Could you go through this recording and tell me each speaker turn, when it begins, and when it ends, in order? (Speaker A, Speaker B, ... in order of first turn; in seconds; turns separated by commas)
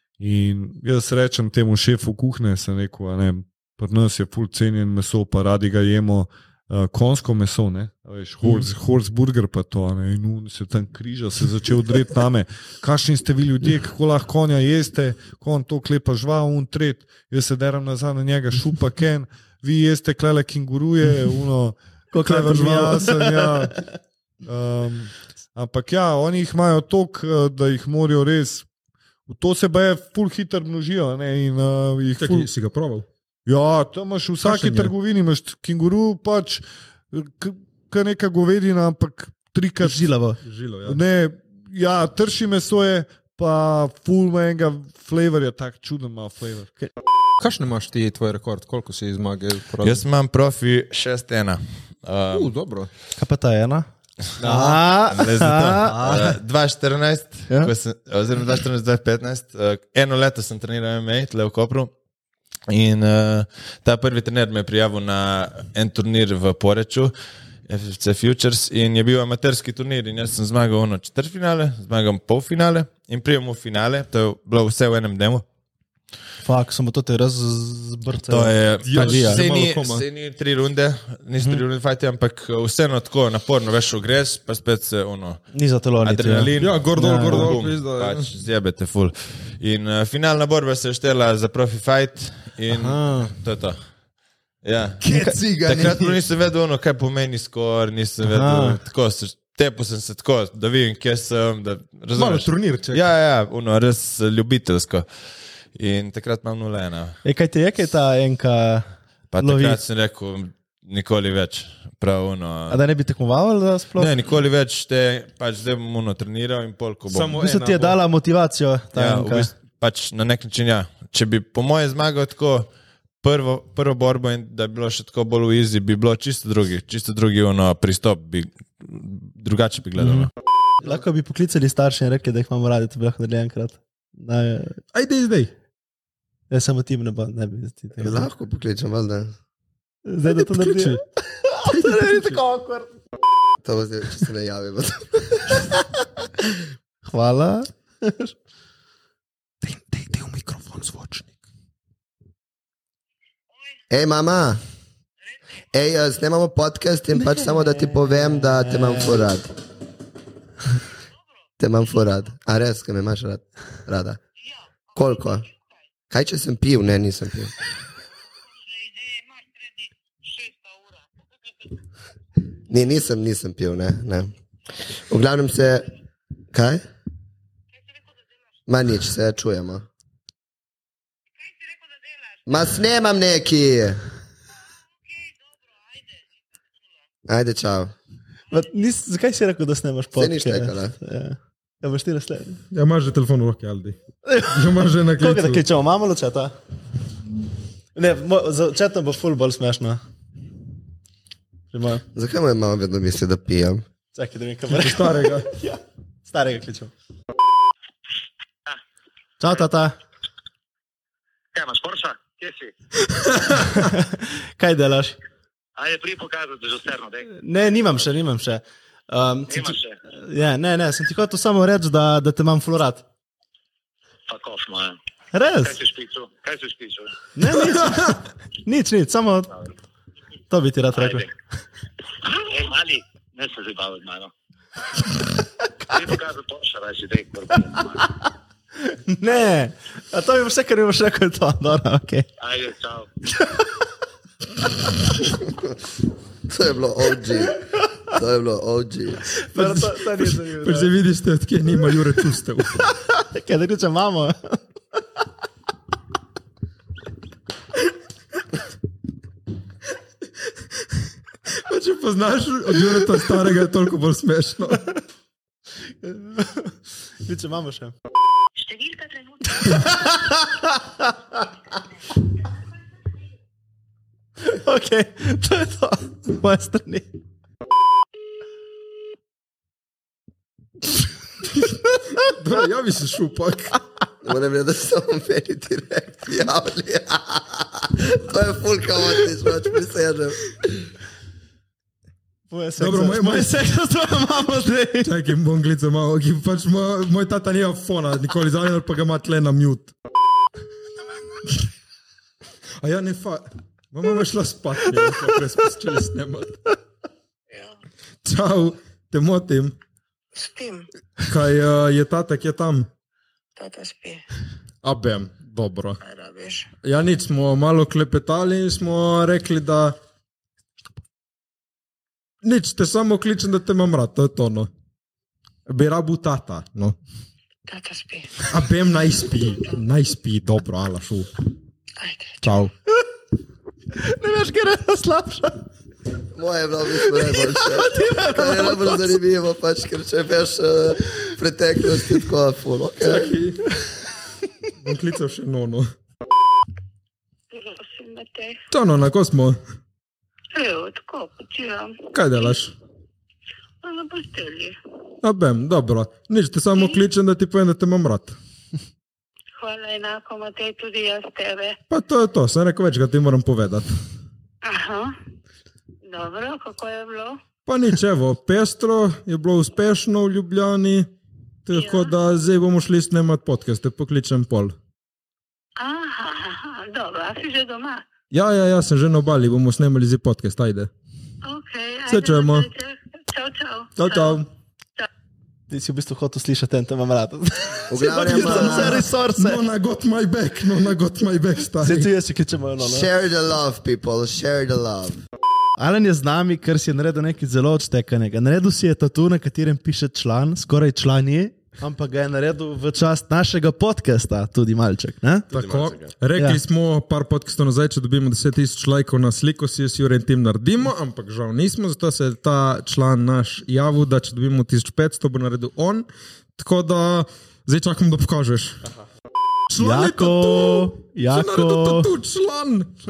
Speaker A: 0.2-23.8, Speaker B: 22.1-23.6, Speaker A: 24.4-28.7, Speaker A: 29.3-32.5, Speaker C: 32.2-33.0, Speaker A: 33.5-40.1, Speaker C: 34.4-34.9, Speaker B: 39.8-40.4, Speaker C: 40.4-41.0, Speaker A: 40.8-46.7, Speaker C: 47.4-50.0, Speaker D: 49.8-52.5, Speaker C: 52.3-52.9, Speaker B: 53.1-53.9, Speaker B: 54.4-56.4, Speaker C: 54.4-54.9, Speaker D: 55.1-61.9, Speaker D: 62.7-67.1, Speaker D: 67.7-75.4, Speaker B: 76.4-79.4, Speaker D: 78.3-85.4, Speaker C: 78.8-80.0, Speaker B: 85.5-87.6, Speaker D: 86.0-93.8, Speaker C: 86.6-88.3, Speaker B: 92.7-93.3, Speaker D: 94.6-95.0, Speaker C: 95.0-96.2, Speaker B: 95.1-95.4, Speaker D: 95.5-105.1, Speaker B: 98.2-98.8, Speaker C: 102.1-103.0, Speaker D: 105.7-107.2, Speaker B: 107.2-108.9, Speaker D: 109.3-112.8, Speaker B: 109.4-109.8, Speaker B: 112.7-114.1, Speaker D: 113.9-117.4, Speaker C: 117.1-118.0, Speaker B: 117.4-119.5, Speaker D: 118.9-122.7, Speaker D: 123.2-130.3, Speaker B: 130.8-134.8, Speaker C: 134.9-135.5, Speaker B: 136.5-138.3, Speaker E: 138.0-139.3, Speaker B: 140.1-142.9, Speaker C: 140.4-141.0, Speaker C: 141.7-142.4, Speaker E: 143.6-145.6, Speaker B: 147.0-148.3, Speaker C: 149.6-151.3, Speaker E: 153.9-154.6, Speaker E: 155.7-159.5, Speaker B: 158.1-159.2, Speaker E: 161.6-164.2, Speaker E: 164.9-165.4, Speaker E: 166.1-167.5, Speaker E: 172.7-174.3, Speaker E: 175.1-175.9, Speaker E: 176.5-176.8, Speaker E: 178.7-179.8, Speaker E: 182.5-184.0, Speaker E: 187.3-187.9, Speaker B: 188.5-192.6, Speaker E: 190.1-190.9, Speaker C: 192.7-195.6, Speaker B: 194.3-196.5, Speaker B: 197.9-200.0, Speaker B: 201.7-202.0, Speaker E: 202.1-203.8, Speaker B: 204.1-206.9, Speaker C: 204.7-205.5, Speaker B: 209.4-209.9, Speaker F: 211.5-212.7, Speaker B: 213.7-215.2, Speaker F: 215.8-217.2, Speaker B: 217.3-223.0, Speaker F: 219.5-219.9, Speaker F: 224.3-224.9, Speaker B: 225.3-225.8, Speaker F: 225.6-227.1, Speaker B: 227.3-229.5, Speaker B: 230.5-231.3, Speaker F: 232.3-234.3, Speaker F: 235.9-238.0, Speaker B: 238.9-242.3, Speaker F: 242.4-243.1, Speaker E: 246.5-249.3, Speaker B: 249.4-250.9, Speaker C: 249.6-252.8, Speaker B: 253.0-254.6, Speaker C: 261.6-264.9, Speaker B: 266.0-266.7, Speaker B: 267.2-267.9, Speaker G: 268.6-270.1, Speaker B: 269.6-271.1, Speaker B: 274.4-277.1, Speaker C: 282.2-283.7, Speaker E: 284.2-290.4, Speaker B: 292.5-295.1, Speaker C: 292.8-293.5, Speaker C: 295.0-299.9, Speaker C: 302.8-306.6, Speaker C: 308.2-309.8, Speaker G: 310.3-310.9, Speaker C: 311.2-312.9, Speaker G: 313.6-314.2, Speaker C: 314.8-316.0, Speaker G: 316.0-316.6, Speaker C: 316.8-320.0, Speaker C: 322.4-324.7, Speaker C: 325.7-326.9, Speaker G: 327.7-328.3, Speaker C: 328.5-331.3, Speaker G: 332.0-332.4, Speaker C: 332.4-332.7, Speaker B: 334.0-335.6, Speaker E: 336.3-343.3, Speaker B: 337.1-339.2, Speaker C: 343.0-343.7, Speaker C: 344.8-345.9, Speaker G: 347.5-348.6, Speaker C: 348.7-349.6, Speaker G: 350.5-352.5, Speaker C: 352.1-352.7, Speaker G: 353.8-354.8, Speaker C: 355.2-358.4, Speaker G: 356.7-357.0, Speaker G: 359.6-361.8, Speaker C: 361.9-363.9, Speaker G: 364.6-365.1, Speaker G: 366.1-367.4, Speaker C: 367.6-371.1, Speaker C: 371.6-374.8, Speaker G: 371.7-372.1, Speaker G: 375.8-378.0, Speaker C: 378.3-380.9, Speaker G: 381.4-384.4, Speaker C: 382.1-382.7, Speaker C: 383.9-384.4, Speaker B: 385.7-389.6, Speaker E: 387.9-389.1, Speaker C: 388.1-392.1, Speaker B: 391.8-393.1, Speaker E: 392.8-395.2, Speaker B: 395.8-405.6, Speaker C: 405.5-418.8, Speaker C: 419.7-422.9, Speaker B: 419.8-422.1